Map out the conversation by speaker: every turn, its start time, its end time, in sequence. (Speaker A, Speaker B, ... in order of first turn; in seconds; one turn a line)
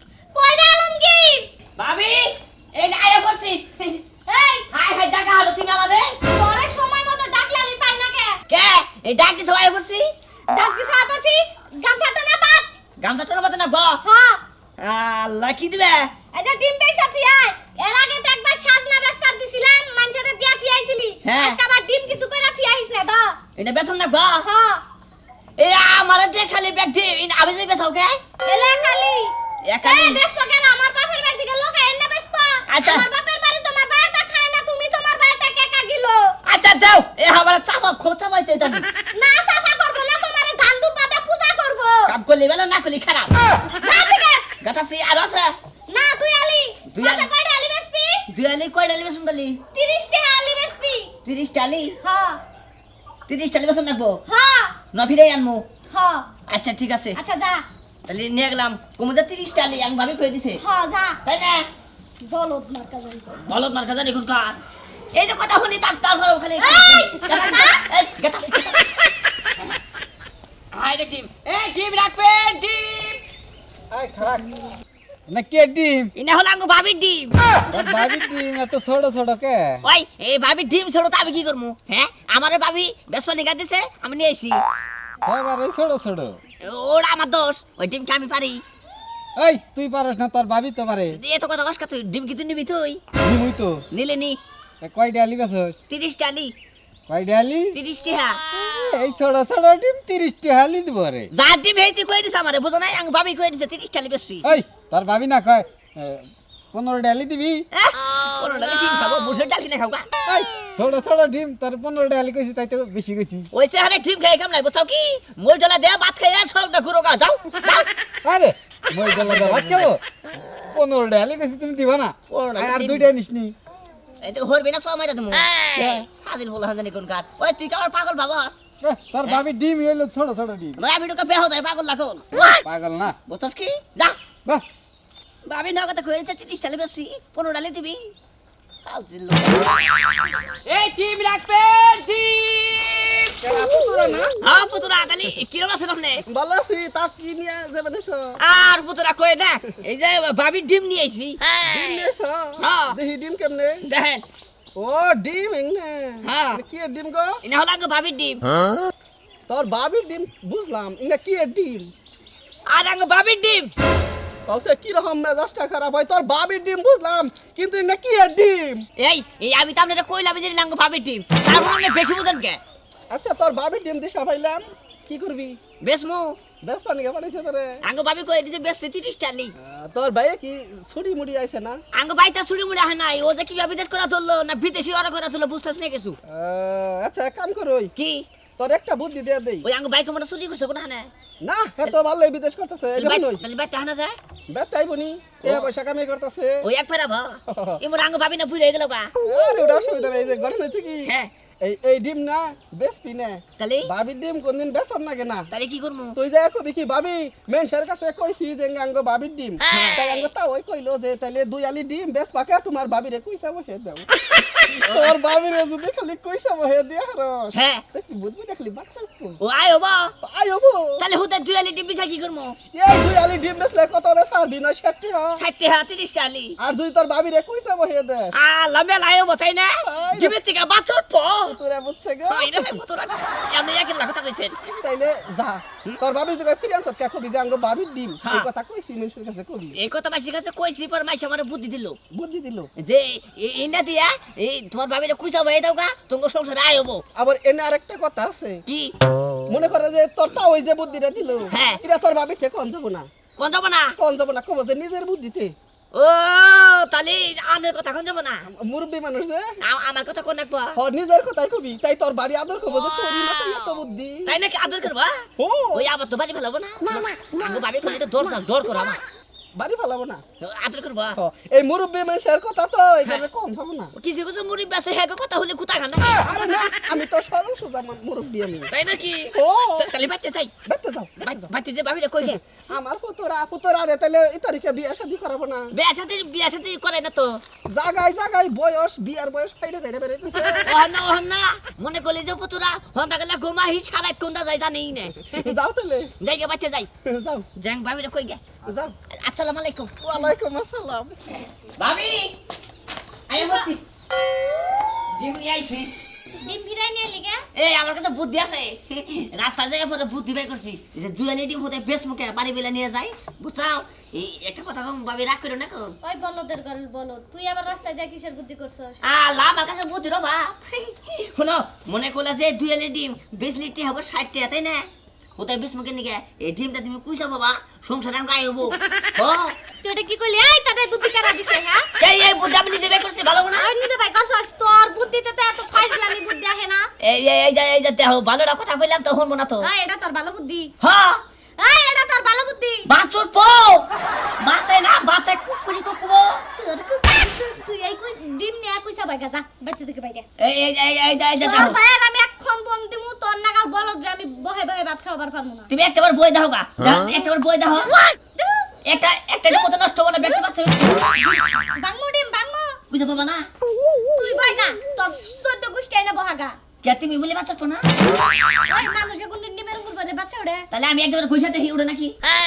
Speaker A: 0.3-1.5
Speaker B: 1.8-4.0
Speaker A: 4.3-4.7
Speaker B: 4.7-6.2
Speaker A: 6.2-8.4
Speaker B: 8.5-10.1
Speaker A: 10.5-12.7
Speaker B: 13.0-14.0
Speaker A: 14.0-14.4
Speaker B: 14.8-16.1
Speaker A: 16.3-23.4
Speaker B: 21.2-21.6
Speaker B: 23.6-24.5
Speaker A: 24.4-24.8
Speaker B: 25.6-28.2
Speaker A: 28.4-36.4
Speaker B: 29.6-30.2
Speaker B: 32.7-33.1
Speaker B: 36.4-38.9
Speaker A: 39.1-42.1
Speaker B: 42.1-43.3
Speaker A: 43.7-44.5
Speaker B: 44.6-45.5
Speaker A: 45.9-48.3
Speaker B: 46.9-47.3
Speaker B: 48.3-49.6
Speaker A: 49.7-51.1
Speaker B: 51.2-52.0
Speaker A: 52.0-52.4
Speaker B: 53.3-54.2
Speaker A: 54.3-54.8
Speaker B: 54.9-55.6
Speaker A: 55.9-56.3
Speaker B: 56.5-57.2
Speaker A: 57.1-57.6
Speaker B: 58.1-60.6
Speaker A: 60.6-61.2
Speaker B: 61.2-61.7
Speaker A: 62.2-63.4
Speaker B: 63.5-64.6
Speaker B: 65.1-68.9
Speaker A: 66.6-67.8
Speaker B: 70.7-73.2
Speaker C: 73.9-74.6
Speaker C: 75.3-76.1
Speaker B: 76.1-77.4
Speaker C: 77.7-79.8
Speaker B: 79.8-84.6
Speaker C: 85.2-86.4
Speaker B: 86.6-88.6
Speaker C: 89.3-91.2
Speaker B: 91.1-93.0
Speaker C: 93.2-93.8
Speaker B: 93.9-94.4
Speaker C: 94.8-95.8
Speaker B: 95.9-96.5
Speaker C: 97.1-97.8
Speaker B: 97.7-98.4
Speaker C: 98.5-101.3
Speaker B: 101.3-104.5
Speaker C: 104.4-107.7
Speaker B: 107.7-110.1
Speaker C: 110.2-113.5
Speaker B: 113.5-117.9
Speaker C: 118.2-120.0
Speaker B: 119.0-119.9
Speaker C: 120.7-123.5
Speaker B: 122.3-123.1
Speaker B: 124.2-128.6
Speaker C: 125.8-126.0
Speaker C: 128.8-130.8
Speaker B: 130.8-132.6
Speaker C: 132.5-133.2
Speaker B: 133.3-134.2
Speaker B: 135.4-138.1
Speaker B: 138.8-143.3
Speaker D: 143.4-144.3
Speaker B: 144.4-146.2
Speaker D: 146.2-148.4
Speaker B: 148.4-151.4
Speaker D: 151.6-153.9
Speaker B: 152.6-153.0
Speaker B: 153.8-154.2
Speaker D: 154.8-157.4
Speaker B: 156.2-156.6
Speaker B: 157.4-158.4
Speaker D: 159.5-161.9
Speaker B: 162.7-163.7
Speaker D: 164.5-168.8
Speaker B: 169.0-172.6
Speaker D: 173.1-175.6
Speaker B: 175.8-176.4
Speaker D: 176.6-177.8
Speaker B: 177.8-179.5
Speaker D: 179.6-181.8
Speaker B: 181.9-186.2
Speaker D: 186.3-187.9
Speaker B: 187.9-188.2
Speaker D: 188.6-189.7
Speaker B: 189.6-191.1
Speaker D: 191.4-193.4
Speaker B: 192.9-194.2
Speaker D: 194.5-196.7
Speaker B: 195.4-195.7
Speaker B: 196.6-199.1
Speaker D: 197.5-197.8
Speaker D: 199.2-205.5
Speaker B: 201.0-201.3
Speaker B: 203.6-203.9
Speaker B: 205.5-206.2
Speaker D: 206.2-214.1
Speaker B: 209.7-210.1
Speaker B: 214.6-215.2
Speaker D: 214.8-219.4
Speaker B: 217.5-217.8
Speaker B: 219.4-220.1
Speaker D: 220.2-221.0
Speaker B: 221.0-222.6
Speaker D: 222.7-225.4
Speaker B: 225.4-226.6
Speaker D: 226.6-228.3
Speaker B: 228.3-231.6
Speaker D: 229.8-230.4
Speaker D: 231.4-232.8
Speaker B: 232.3-234.6
Speaker D: 234.7-239.8
Speaker B: 238.2-238.5
Speaker B: 239.7-242.0
Speaker D: 242.1-242.7
Speaker B: 242.8-247.0
Speaker D: 247.1-248.6
Speaker B: 248.7-248.9
Speaker D: 249.5-253.1
Speaker B: 251.5-251.8
Speaker B: 253.4-253.9
Speaker D: 254.0-255.5
Speaker B: 255.9-258.4
Speaker D: 258.5-259.5
Speaker B: 259.6-260.8
Speaker D: 260.8-264.4
Speaker B: 264.2-265.2
Speaker D: 265.4-265.9
Speaker B: 265.7-269.0
Speaker D: 266.8-268.9
Speaker D: 269.6-270.2
Speaker B: 270.4-271.2
Speaker D: 271.1-273.9
Speaker B: 273.9-276.2
Speaker D: 276.2-278.7
Speaker B: 278.7-280.5
Speaker D: 279.3-279.9
Speaker D: 280.6-281.5
Speaker B: 281.2-282.4
Speaker D: 282.2-285.7
Speaker B: 285.7-287.4
Speaker D: 287.6-290.7
Speaker B: 290.6-295.5
Speaker D: 295.3-296.1
Speaker B: 296.2-296.9
Speaker D: 297.0-297.5
Speaker B: 297.6-298.4
Speaker D: 298.6-298.9
Speaker B: 299.1-300.3
Speaker D: 300.0-301.2
Speaker B: 301.8-302.3
Speaker B: 303.3-303.8
Speaker A: 303.3-303.7
Speaker B: 305.1-305.9
Speaker A: 306.4-307.4
Speaker B: 307.5-316.0
Speaker A: 316.0-319.0
Speaker B: 319.0-329.6
Speaker A: 329.8-331.9
Speaker B: 332.0-333.7
Speaker A: 333.5-336.9
Speaker B: 337.0-339.7
Speaker A: 339.6-340.7
Speaker B: 340.8-341.2
Speaker A: 341.6-342.9
Speaker B: 342.9-343.9
Speaker B: 344.4-346.8
Speaker A: 346.8-350.2
Speaker B: 350.4-351.8
Speaker A: 351.4-355.7
Speaker B: 355.7-358.0
Speaker A: 357.8-358.7
Speaker B: 358.8-361.5
Speaker A: 361.8-362.8
Speaker B: 362.9-363.5
Speaker A: 364.1-366.6
Speaker B: 366.8-367.9
Speaker A: 368.6-370.7
Speaker B: 370.7-372.1